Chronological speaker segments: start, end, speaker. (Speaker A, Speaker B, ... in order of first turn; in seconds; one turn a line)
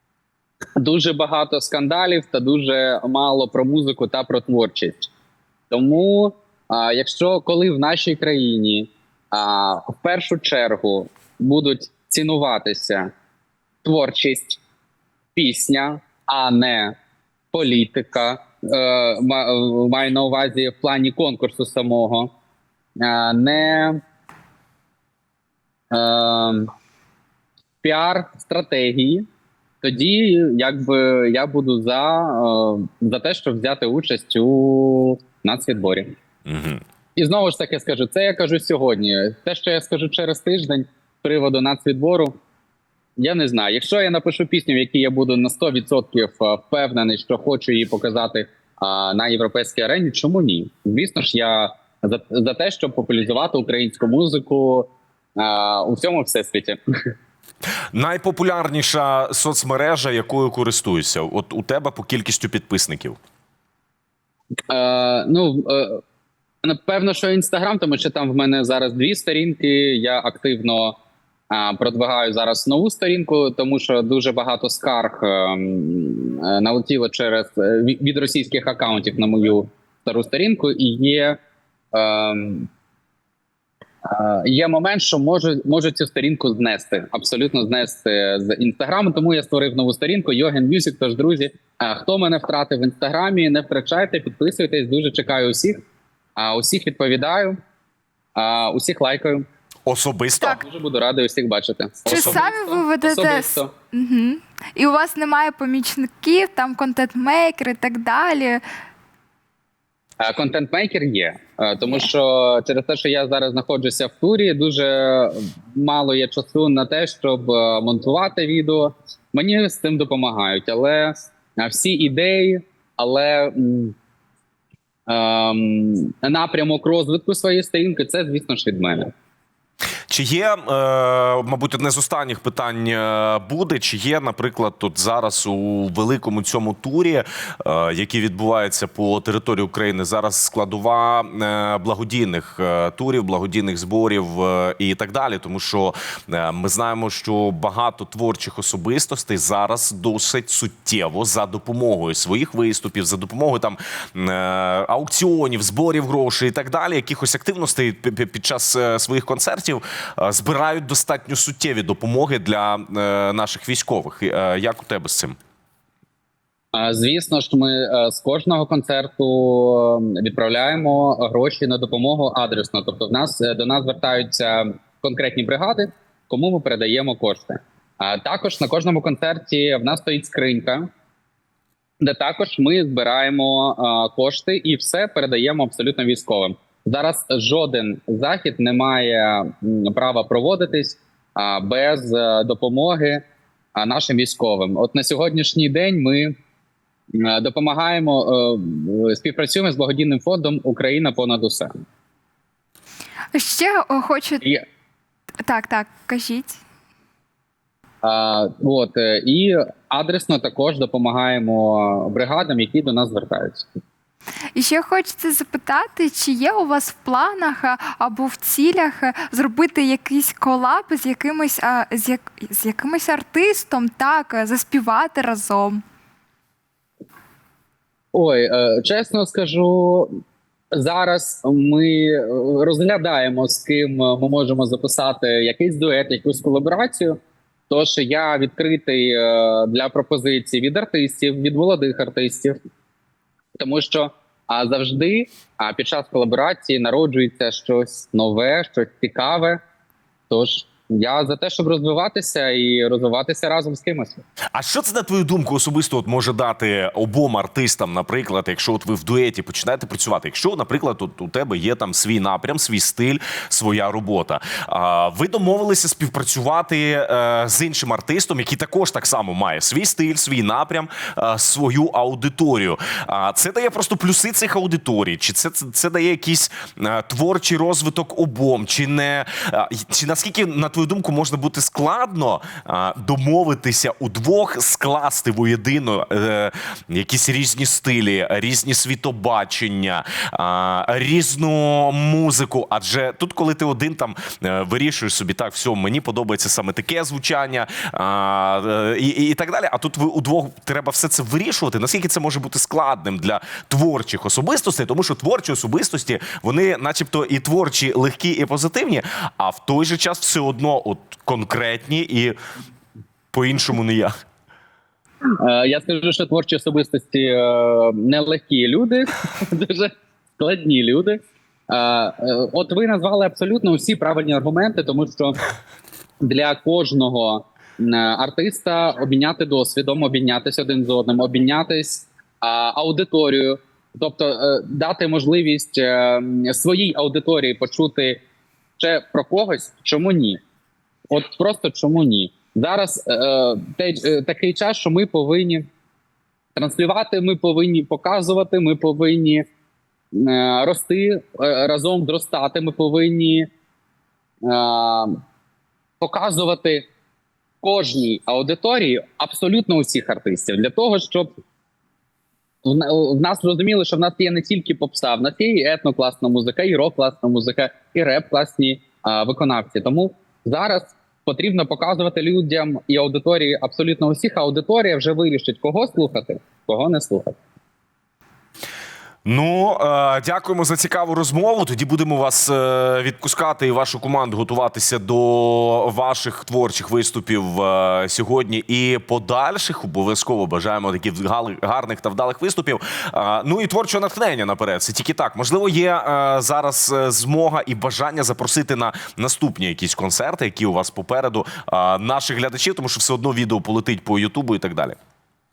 Speaker A: 0.8-5.1
Speaker A: 5.7-13.1
Speaker A: 13.8-14.6
Speaker A: 15.4-16.9
Speaker A: 17.5-22.3
Speaker A: 23.0-24.0
Speaker A: 25.9-26.7
Speaker A: 27.8-29.3
Speaker A: 29.8-36.1
Speaker B: 36.5-36.8
Speaker A: 37.2-42.4
Speaker A: 43.2-56.8
Speaker B: 57.9-63.2
Speaker A: 64.7-66.0
Speaker A: 66.6-71.0
Speaker A: 71.5-81.4
Speaker A: 81.9-82.7
Speaker A: 84.0-95.8
Speaker A: 96.4-97.6
Speaker A: 98.4-99.5
Speaker B: 99.9-100.6
Speaker A: 100.5-103.7
Speaker C: 102.1-108.6
Speaker B: 102.1-102.4
Speaker A: 110.2-124.0
Speaker A: 125.1-129.1
Speaker B: 130.1-165.4
Speaker A: 166.7-180.9
Speaker A: 182.0-196.4
Speaker A: 197.1-201.7
Speaker C: 203.3-204.4
Speaker C: 205.4-206.6
Speaker A: 208.0-213.7
Speaker C: 214.5-225.8
Speaker A: 228.1-230.2
Speaker A: 230.7-242.6
Speaker A: 243.6-249.6
Speaker A: 250.3-254.2
Speaker B: 254.5-312.4
Speaker B: 313.3-314.1
Speaker A: 315.4-325.4
Speaker A: 326.2-338.2
Speaker A: 338.8-340.4
Speaker A: 341.1-345.7
Speaker A: 346.6-349.5
Speaker A: 350.1-353.5
Speaker A: 354.4-355.2
Speaker A: 356.0-356.9
Speaker A: 357.6-361.4
Speaker A: 362.6-377.4
Speaker B: 379.2-405.0